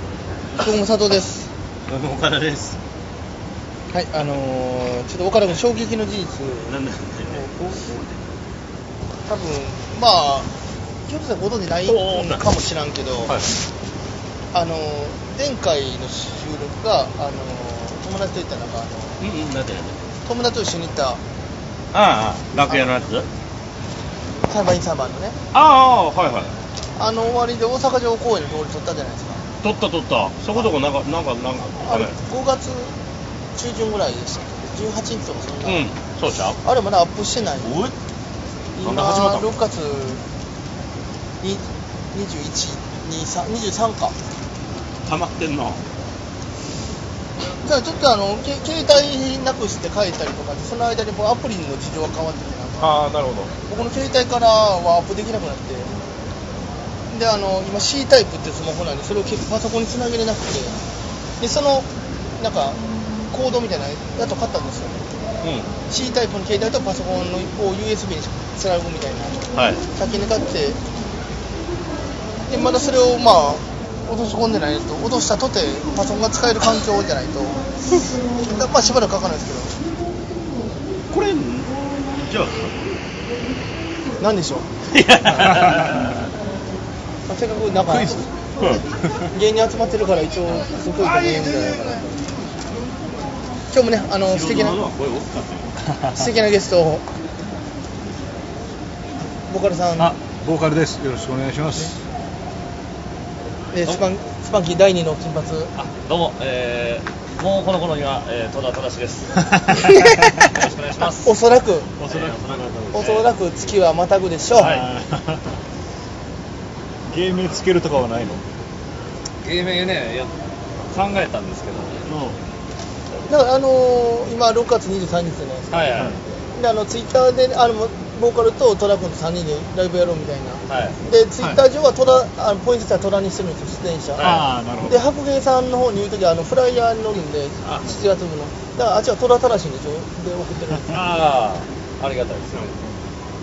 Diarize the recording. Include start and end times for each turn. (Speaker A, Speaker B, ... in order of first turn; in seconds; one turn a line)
Speaker A: 0.6-1.5
Speaker B: 1.9-2.8
Speaker A: 3.9-7.8
Speaker B: 6.7-8.1
Speaker A: 9.3-10.5
Speaker A: 11.1-13.3
Speaker B: 11.8-12.5
Speaker A: 14.5-19.2
Speaker B: 19.2-19.9
Speaker A: 20.2-21.2
Speaker B: 21.9-23.3
Speaker A: 22.7-23.0
Speaker A: 24.5-25.4
Speaker B: 25.5-26.5
Speaker A: 27.0-29.4
Speaker B: 29.6-32.1
Speaker A: 31.8-32.9
Speaker A: 33.5-35.8
Speaker B: 35.6-36.6
Speaker A: 36.6-37.7
Speaker B: 37.6-37.9
Speaker A: 38.8-40.2
Speaker B: 38.8-39.5
Speaker A: 41.4-44.1
Speaker B: 45.0-45.8
Speaker A: 47.6-52.9
Speaker B: 52.8-53.5
Speaker A: 53.7-55.9
Speaker A: 57.1-60.8
Speaker A: 61.4-61.9
Speaker A: 62.4-65.0
Speaker B: 65.4-65.7
Speaker A: 65.9-70.8
Speaker B: 69.5-69.8
Speaker A: 72.5-77.6
Speaker A: 78.5-79.8
Speaker B: 81.1-82.9
Speaker A: 84.2-84.7
Speaker B: 84.9-86.1
Speaker C: 85.5-85.8
Speaker A: 87.3-88.3
Speaker C: 87.9-88.2
Speaker A: 89.2-92.1
Speaker B: 91.0-92.0
Speaker A: 93.7-94.8
Speaker B: 94.2-95.8
Speaker A: 96.1-97.0
Speaker A: 99.5-100.1
Speaker C: 100.0-102.0
Speaker A: 103.7-105.7
Speaker D: 105.8-109.5
Speaker C: 109.5-110.0
Speaker A: 109.8-110.5
Speaker D: 110.4-111.3
Speaker A: 111.2-111.9
Speaker C: 112.0-113.2
Speaker D: 112.1-113.2
Speaker A: 112.9-114.8
Speaker C: 114.5-115.5
Speaker D: 114.6-114.8
Speaker C: 117.1-118.4
Speaker D: 119.4-120.3
Speaker D: 120.9-122.0
Speaker C: 122.1-122.4
Speaker A: 123.3-126.0
Speaker D: 125.7-126.2
Speaker A: 126.5-134.3
Speaker D: 130.7-131.0
Speaker D: 134.2-134.4
Speaker C: 134.2-135.0
Speaker A: 134.8-141.1
Speaker D: 137.6-137.9
Speaker D: 140.9-142.7